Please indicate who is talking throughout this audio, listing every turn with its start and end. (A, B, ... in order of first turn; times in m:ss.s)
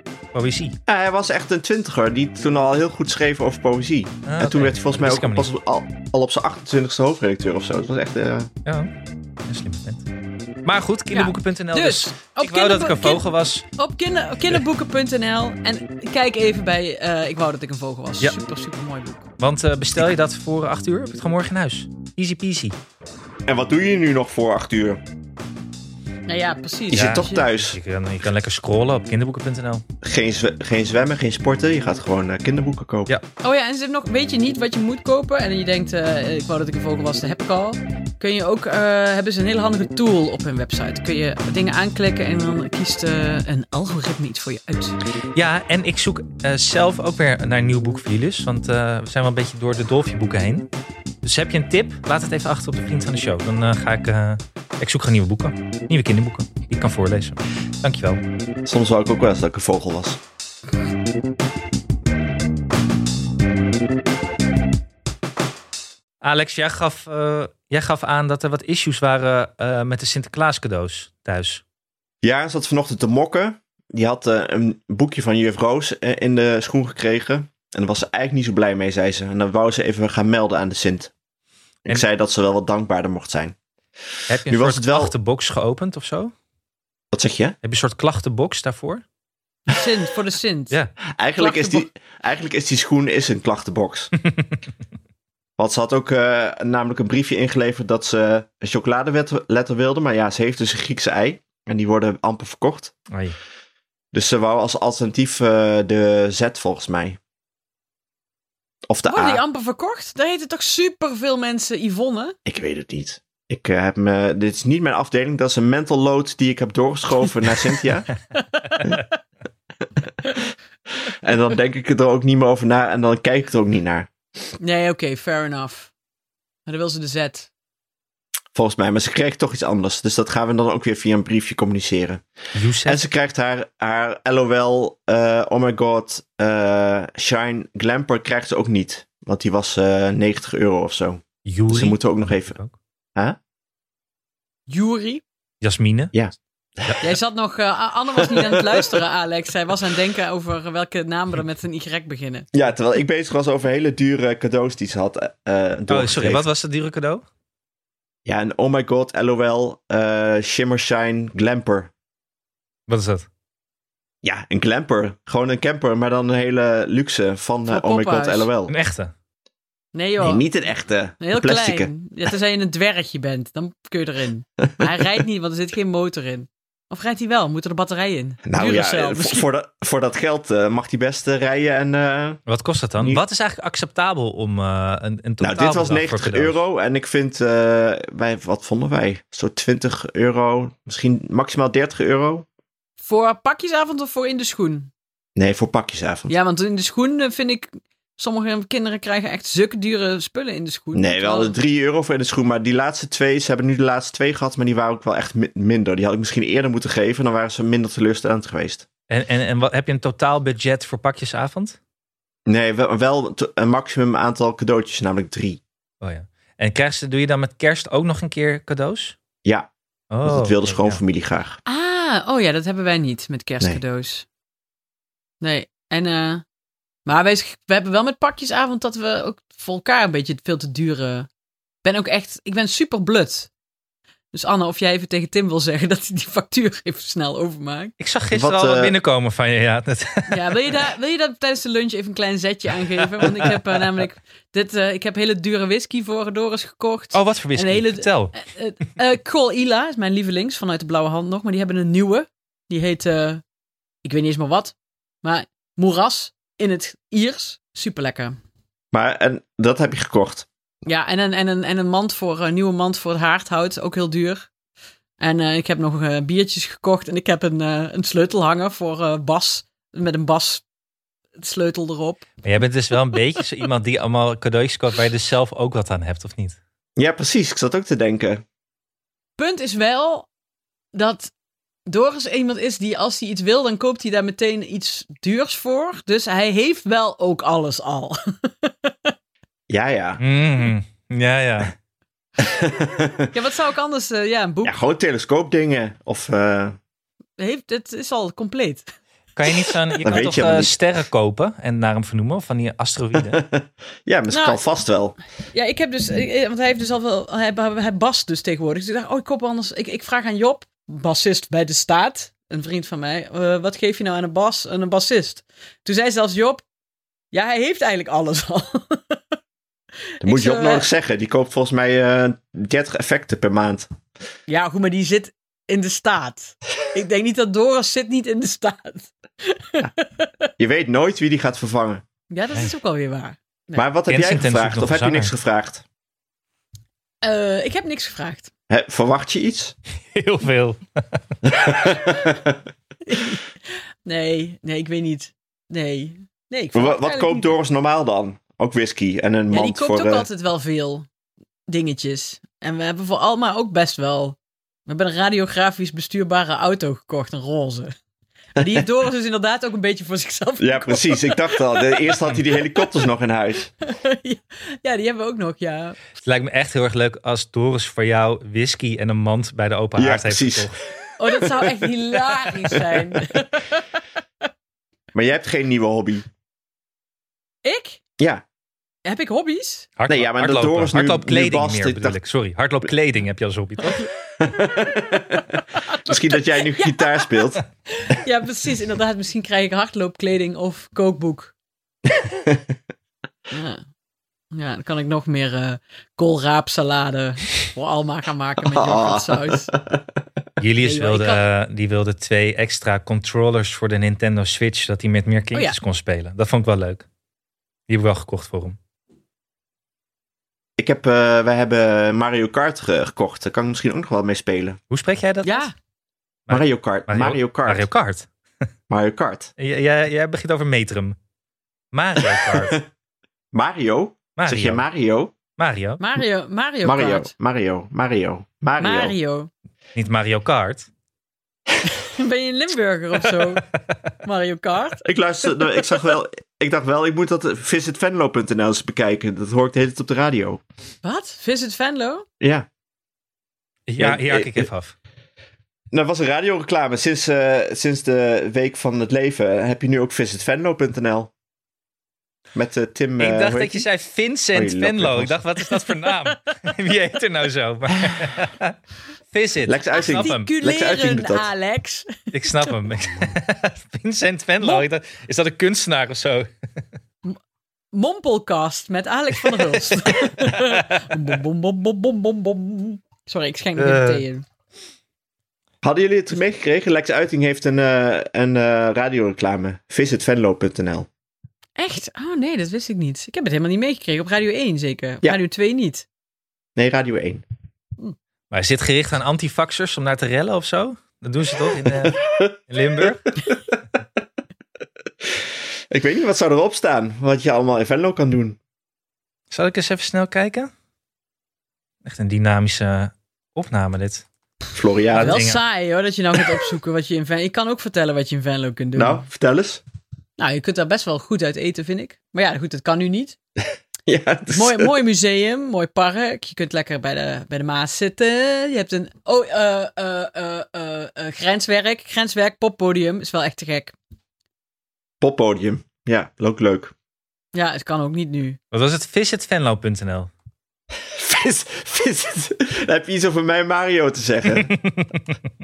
0:00.3-0:00.8 A
0:00.9-0:08.5 B
0:04.3-0:05.5 A
0:08.6-0:08.9 A
0:09.5-0:10.0 A
0:10.6-0:13.6 A
0:11.1-0:13.2 C
0:13.8-0:19.2 C
0:19.4-0:22.8 A
0:23.5-0:25.0 B
0:26.3-0:27.4 C
0:26.9-0:27.8 B
0:26.9-0:29.8 A
0:30.0-0:33.1 B
0:33.4-0:45.0 C
0:45.3-0:50.7 A
0:51.2-0:58.2 A
0:58.6-1:00.2 B
1:06.2-1:11.6 A
1:12.2-1:21.1 B
1:21.8-1:23.6 B
1:24.3-1:26.3 A
1:24.5-1:25.1 B
1:27.1-1:27.6 B
1:27.6-1:29.0 A
1:29.7-1:30.8 C
1:31.2-1:34.1 B
1:31.4-1:31.9 C
1:35.6-1:42.9 B
1:43.1-1:43.4 A
1:44.1-1:47.2 B
1:48.9-1:49.4 B
1:49.1-1:52.4 C
1:52.5-1:58.1 B
1:58.4-1:58.9 C
2:01.2-2:04.1 B
2:04.6-2:05.9 C
2:06.7-2:07.5 C
2:08.5-2:12.2 B
2:12.5-2:13.0 A
2:12.8-2:22.6 B
2:21.4-2:22.7 A
2:24.7-2:25.2 C
2:25.6-2:26.2 A
2:26.1-2:27.0 B
2:27.0-2:32.5 C
2:28.2-2:28.9 B
2:32.5-2:36.4 B
2:35.9-2:37.2 A
2:38.3-2:41.9 B
2:42.9-2:43.3 A
2:44.2-2:48.7 B
2:47.7-2:48.5 C
2:48.7-2:49.1 A
2:49.9-2:50.5 C
2:50.2-2:51.9 B
2:51.2-2:59.5 C
2:58.4-3:02.4 B
3:02.5-3:06.6 A
3:05.4-3:12.5 B
3:13.0-3:14.9 C
3:15.4-3:16.3 B
3:16.3-3:21.5 C
3:20.9-3:28.9 B
3:29.1-3:31.8 A
3:32.5-3:35.6 B
3:36.0-3:39.2 A
3:39.4-3:39.7 B
3:40.1-3:41.0 A
3:40.2-3:41.6 B
3:41.7-3:44.3 C
3:45.4-3:46.4 C
3:47.1-3:51.3 C
3:51.8-3:53.5 C
3:54.3-3:57.9 C
3:58.0-4:00.7 A
3:58.3-3:58.9 B
4:00.3-4:13.4 C
4:03.2-4:03.5 A
4:07.1-4:08.4 A
4:14.0-4:18.4 C
4:18.9-4:20.5 B
4:20.8-4:24.5 C
4:25.2-4:30.6 C
4:31.4-4:32.3 C
4:32.4-4:36.6 A
4:37.0-4:38.4 B
4:39.4-4:40.3 C
4:40.9-4:41.3 C
4:41.9-4:49.1 C
4:49.7-4:50.2 B
4:50.2-4:51.7 A
4:52.4-4:53.3 B
4:53.3-4:54.8 C
4:54.6-4:56.8 B
4:57.4-4:58.9 C
4:59.4-5:03.4 A
5:00.0-5:00.7 B
5:03.2-5:05.2 B
5:04.3-5:04.6 C
5:05.5-5:16.6 C
5:17.3-5:19.2 C
5:20.2-5:20.9 C
5:20.2-5:23.9 B
5:24.5-5:30.5 C
5:30.6-5:32.0 B
5:32.3-5:33.9 C
5:33.8-5:35.8 B
5:34.1-5:35.3 A
5:37.2-5:38.5 C
5:38.7-5:39.8 B
5:40.1-5:40.8 A
5:41.4-5:42.6 B
5:43.1-5:43.5 C
5:44.1-5:47.5 C
5:46.7-5:50.3 B
5:49.5-5:51.1 C
5:51.7-5:57.9 C
5:58.6-6:02.1 C
6:00.6-6:03.7 B
6:03.8-6:06.0 C
6:06.2-6:10.8 A
6:10.0-6:10.7 B
6:11.2-6:14.0 C
6:11.3-6:11.9 B
6:12.5-6:12.8 B
6:15.1-6:16.3 B
6:17.6-6:18.0 C
6:18.2-6:18.4 B
6:19.0-6:19.9 C
6:20.0-6:24.0 A
6:20.1-6:22.2 B
6:24.4-6:25.4 B
6:25.4-6:31.5 C
6:26.0-6:27.6 B
6:32.2-6:32.8 B
6:33.5-6:33.8 C
6:34.5-6:39.7 C
6:38.7-6:40.0 B
6:40.6-6:47.0 A
6:40.8-6:41.4 C
6:47.9-6:48.8 A
6:50.8-6:54.8 B
6:54.9-6:55.7 A
6:55.4-6:55.7 C
6:56.5-6:58.3 A
6:56.5-6:57.9 B
6:58.9-6:59.5 B
6:59.6-7:01.2 A
7:01.9-7:02.8 A
7:02.4-7:02.8 B
7:03.5-7:05.4 B
7:04.4-7:04.8 A
7:05.6-7:06.0 A
7:06.0-7:07.3 C
7:06.8-7:09.2 B
7:08.8-7:09.5 C
7:10.0-7:10.9 A
7:11.8-7:13.6 C
7:14.2-7:15.0 C
7:15.0-7:20.6 B
7:21.0-7:22.3 C
7:22.4-7:22.7 B
7:23.9-7:24.9 A
7:24.0-7:24.7 B
7:25.9-7:31.3 B
7:32.6-7:33.9 B
7:33.2-7:38.8 A
7:34.5-7:35.4 B
7:35.9-7:36.3 C
7:39.3-7:40.5 A
7:39.6-7:41.5 B
7:39.9-7:42.7 C
7:42.3-7:46.5 A
7:44.6-7:44.9 C
7:47.9-7:54.4 C
7:50.2-7:50.7 A
7:53.8-7:54.2 A
7:55.8-8:01.1 B
8:01.8-8:06.1 C
8:06.8-8:07.4 B
8:08.5-8:13.3 A
8:11.9-8:12.6 B
8:15.3-8:18.6 B
8:19.5-8:20.7 A
8:22.0-8:24.2 A
8:24.7-8:25.4 B
8:25.1-8:25.6 A
8:25.2-8:29.2 C
8:29.0-8:29.8 B
8:30.4-8:33.4 C
8:34.1-8:35.0 B
8:34.5-8:44.0 C
8:45.2-8:46.9 B
8:47.5-8:48.6 C
8:48.7-8:50.3 A
8:51.0-8:54.8 B
8:54.6-8:55.1 A